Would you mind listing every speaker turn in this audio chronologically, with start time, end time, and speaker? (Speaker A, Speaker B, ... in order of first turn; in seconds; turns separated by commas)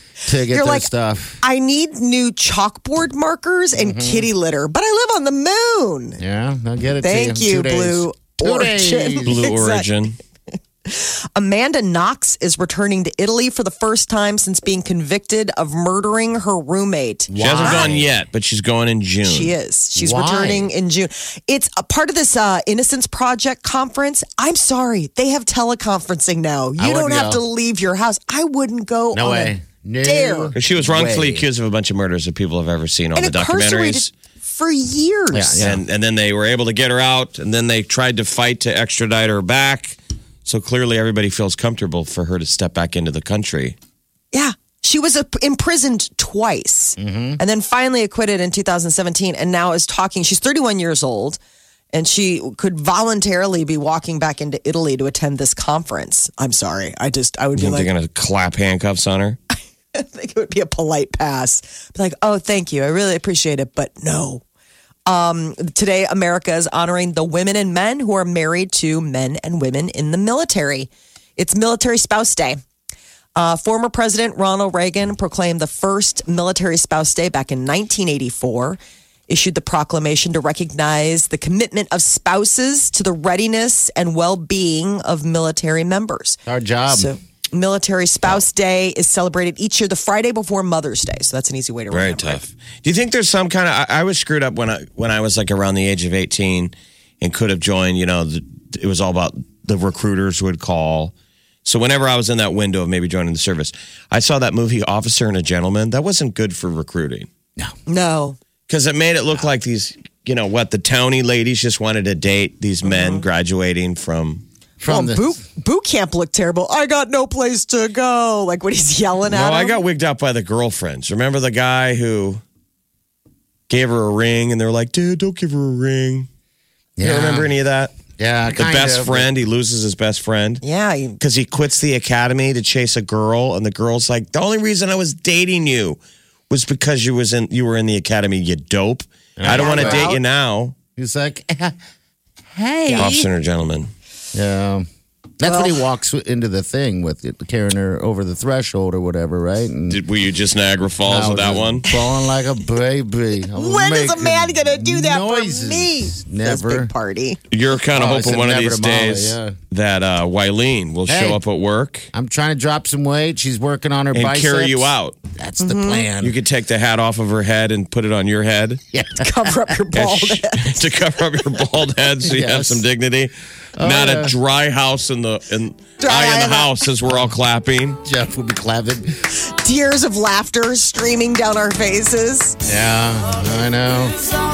Speaker A: 0.2-1.4, Speaker B: 0.5-0.9, Speaker B: 1.4-6.2, Speaker A: 3.8-4.3, Speaker A: 6.2-9.4, Speaker B: 7.0-9.8, Speaker C: 9.2-10.2, Speaker B: 10.8-17.9, Speaker A: 17.3-18.1, Speaker C: 17.4-19.5, Speaker B: 19.2-30.5, Speaker A: 19.9-20.7, Speaker A: 26.8-27.4, Speaker A: 29.1-31.4, Speaker C: 30.5-34.1, Speaker B: 33.1-35.6, Speaker A: 35.3-35.8, Speaker C: 35.6-43.8, Speaker B: 44.3-51.4, Speaker A: 47.0-47.4, Speaker B: 51.9-57.9, Speaker C: 57.5-59.4, Speaker B: 59.9-64.4, Speaker B: 65.1-72.6, Speaker B: 73.3-92.4, Speaker A: 86.5-87.1, Speaker C: 91.9-101.1, Speaker C: 101.6-107.3, Speaker B: 107.9-108.4, Speaker C: 108.7-114.4, Speaker B: 112.8-113.2, Speaker A: 114.8-115.4, Speaker B: 114.8-119.8, Speaker C: 119.3-122.4, Speaker C: 123.7-126.3, Speaker A: 127.0-127.5, Speaker C: 127.0-127.9, Speaker A: 128.2-129.3, Speaker C: 128.5-130.6, Speaker B: 130.6-131.2, Speaker C: 131.2-140.7, Speaker A: 139.4-140.1, Speaker B: 139.5-140.2, Speaker A: 140.9-141.8, Speaker A: 142.5-143.3, Speaker C: 142.9-143.9, Speaker A: 144.3-144.9, Speaker A: 145.4-150.0, Speaker B: 145.4-145.7, Speaker C: 149.9-151.8, Speaker A: 151.0-156.9, Speaker B: 153.6-157.4, Speaker C: 157.5-162.1, Speaker A: 157.9-159.6, Speaker A: 161.1-161.4, Speaker A: 162.1-166.3, Speaker C: 164.1-165.2, Speaker B: 165.6-166.1, Speaker C: 166.2-168.8, Speaker A: 168.9-169.8, Speaker B: 169.2-170.8, Speaker C: 169.9-178.0, Speaker A: 172.2-172.8, Speaker A: 173.8-174.3, Speaker B: 176.0-176.8, Speaker A: 177.1-177.3, Speaker A: 178.0-179.3, Speaker B: 179.3-182.6, Speaker A: 182.6-184.2